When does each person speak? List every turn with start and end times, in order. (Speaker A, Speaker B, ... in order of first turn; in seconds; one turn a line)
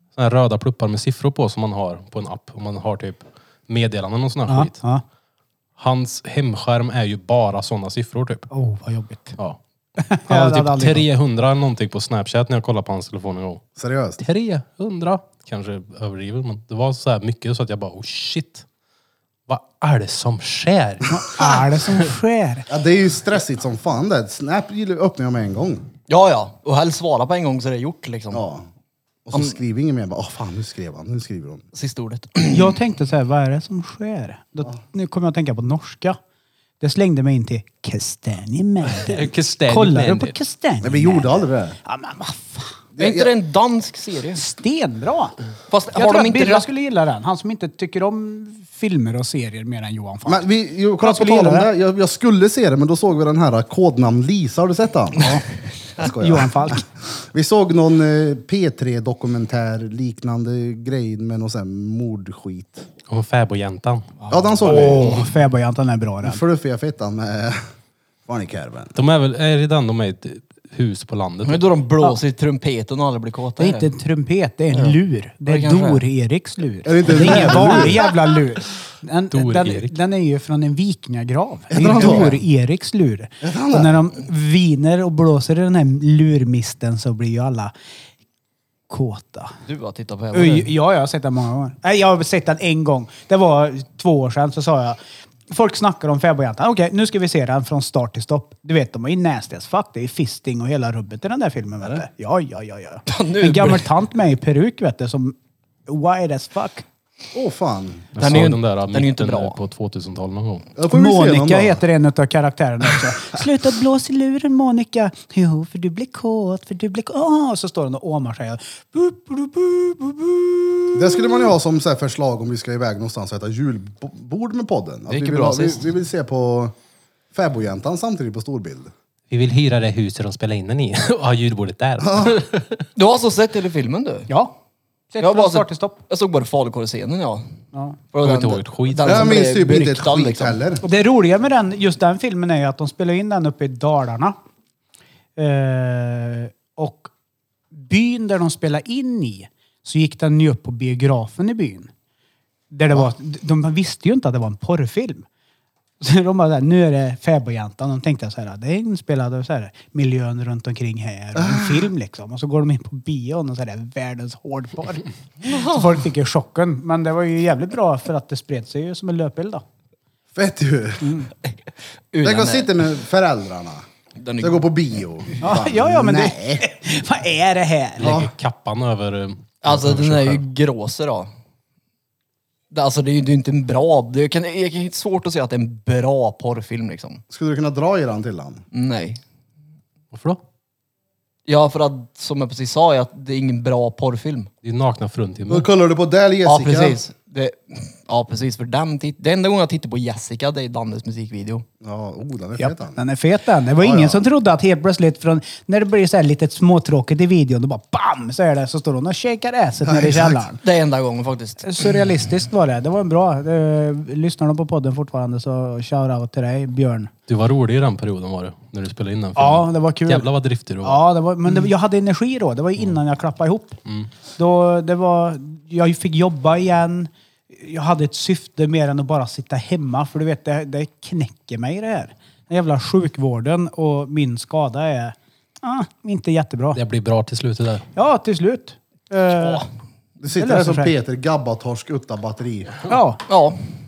Speaker A: 0.1-4.8
Speaker B: 4.5-5.0
Speaker A: 5.8-8.5
Speaker B: 8.5-9.4
Speaker B: 10.0-11.1
Speaker A: 10.3-13.6
Speaker C: 13.8-14.2
Speaker A: 14.2-18.6
Speaker A: 19.5-21.2
Speaker B: 21.1-22.7
Speaker C: 22.7-25.9
Speaker D: 26.1-28.4
Speaker C: 28.3-28.7
Speaker C: 29.3-31.6
Speaker D: 31.7-32.8
Speaker B: 32.5-36.2
Speaker B: 36.8-42.8
Speaker A: 38.9-40.4
Speaker C: 40.8-41.8
Speaker C: 43.0-43.3
Speaker D: 43.0-44.4
Speaker B: 44.4-45.4
Speaker D: 45.7-46.7
Speaker B: 45.9-50.5
Speaker C: 50.3-55.4
Speaker B: 51.0-51.7
Speaker C: 56.0-62.9
Speaker B: 56.0-56.8
Speaker A: 63.1-64.2
Speaker C: 64.3-65.3
Speaker B: 64.6-66.4
Speaker C: 66.2-67.6
Speaker C: 68.3-69.0
Speaker A: 69.0-71.7
Speaker D: 71.4-73.9
Speaker B: 73.6-87.7
Speaker D: 75.5-76.0
Speaker C: 76.8-78.1
Speaker A: 79.3-80.0
Speaker C: 81.7-82.4
Speaker C: 83.4-84.0
Speaker B: 88.9-89.5
Speaker D: 89.7-90.7
Speaker B: 90.3-95.0
Speaker B: 95.5-105.4
Speaker D: 103.1-103.9
Speaker B: 105.9-106.8
Speaker C: 107.3-108.1
Speaker A: 108.2-110.7
Speaker D: 108.2-109.6
Speaker C: 110.8-111.8
Speaker B: 110.9-121.5
Speaker C: 120.9-126.8
Speaker D: 125.1-125.9
Speaker C: 127.3-128.9
Speaker A: 129.3-132.9
Speaker C: 132.0-132.4
Speaker D: 133.0-134.3
Speaker B: 134.3-134.5
Speaker B: 135.1-136.0
Speaker D: 135.2-137.5
Speaker D: 138.1-140.6
Speaker A: 138.2-139.4
Speaker C: 139.0-140.8
Speaker B: 140.8-144.4
Speaker B: 145.4-147.1
Speaker B: 147.7-151.9
Speaker B: 152.7-155.3
Speaker B: 156.0-169.6
Speaker C: 161.3-161.9
Speaker D: 165.5-165.8
Speaker C: 170.3-171.3
Speaker B: 171.0-171.3
Speaker D: 172.1-172.8
Speaker C: 172.2-173.9
Speaker D: 174.2-174.7
Speaker C: 174.4-176.7
Speaker B: 175.4-178.2
Speaker A: 178.0-180.4
Speaker C: 178.0-178.3
Speaker D: 179.6-181.3
Speaker D: 182.7-187.2
Speaker C: 187.3-188.7
Speaker D: 188.7-189.2
Speaker A: 190.1-190.4
Speaker D: 191.5-194.5
Speaker A: 194.6-195.7
Speaker C: 195.5-197.0
Speaker D: 196.4-201.7
Speaker C: 201.8-203.0
Speaker B: 202.6-210.6
Speaker C: 203.8-204.2
Speaker C: 209.8-210.4
Speaker D: 210.6-211.7
Speaker B: 211.6-217.1
Speaker A: 217.3-221.0
Speaker B: 219.4-220.3
Speaker B: 220.8-223.8
Speaker B: 224.4-236.8
Speaker A: 236.7-237.9
Speaker B: 237.9-239.7
Speaker D: 239.3-239.7
Speaker C: 240.2-242.8
Speaker B: 240.3-240.9
Speaker B: 242.9-243.2
Speaker D: 243.3-243.7